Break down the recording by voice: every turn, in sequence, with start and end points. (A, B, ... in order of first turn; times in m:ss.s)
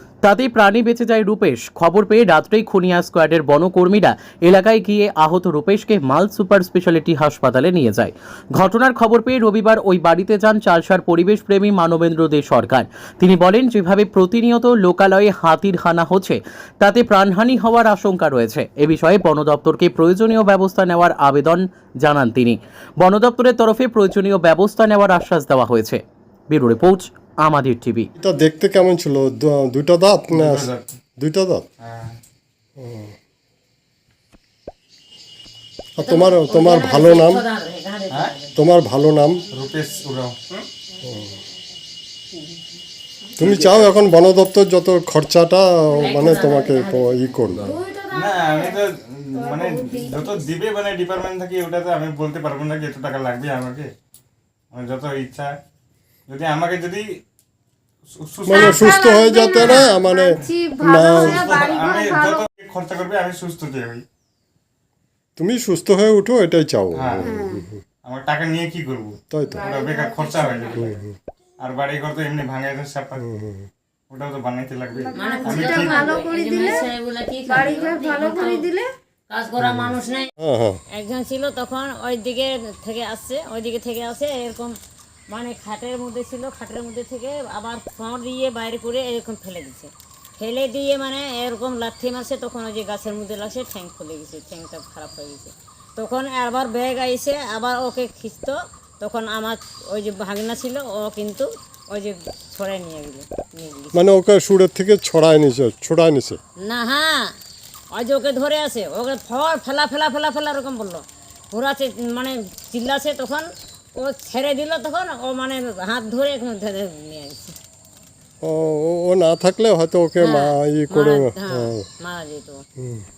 0:00.2-0:28.1 A
0:28.2-0:31.7 B
0:30.3-0:31.0 C
0:31.8-0:32.2 C
0:32.8-0:33.1 B
0:36.0-0:37.4 B
0:36.0-0:38.6 D
0:38.6-0:39.4 B
0:39.5-0:40.4 C
0:41.0-0:41.3 B
0:42.3-0:42.6 D
0:43.4-0:47.7 B
0:43.4-0:43.9 C
0:45.9-0:47.3 D
0:47.6-0:48.8 E
0:48.1-0:53.9 C
0:49.3-0:50.5 E
0:54.7-0:55.6 C
0:56.3-0:57.0 C
0:58.2-0:59.9 C
0:58.4-1:02.5 E
0:58.5-1:01.6 B
1:01.0-1:04.0 C
1:05.4-1:07.8 B
1:06.9-1:07.3 C
1:07.2-1:07.6 E
1:08.0-1:11.0 C
1:09.3-1:09.7 B
1:09.5-1:10.9 E
1:10.7-1:11.2 B
1:11.6-1:13.2 C
1:13.2-1:13.7 B
1:14.1-1:16.3 C
1:15.0-1:16.9 E
1:15.1-1:18.7 D
1:17.5-1:18.8 E
1:19.3-1:20.3 D
1:19.6-1:20.8 B
1:20.9-1:24.7 D
1:25.3-1:44.0 D
1:43.9-1:46.4 B
1:46.6-1:47.3 D
1:47.9-1:57.6 D
1:58.4-2:01.8 B
2:00.2-2:02.6 D
2:02.8-2:03.1 B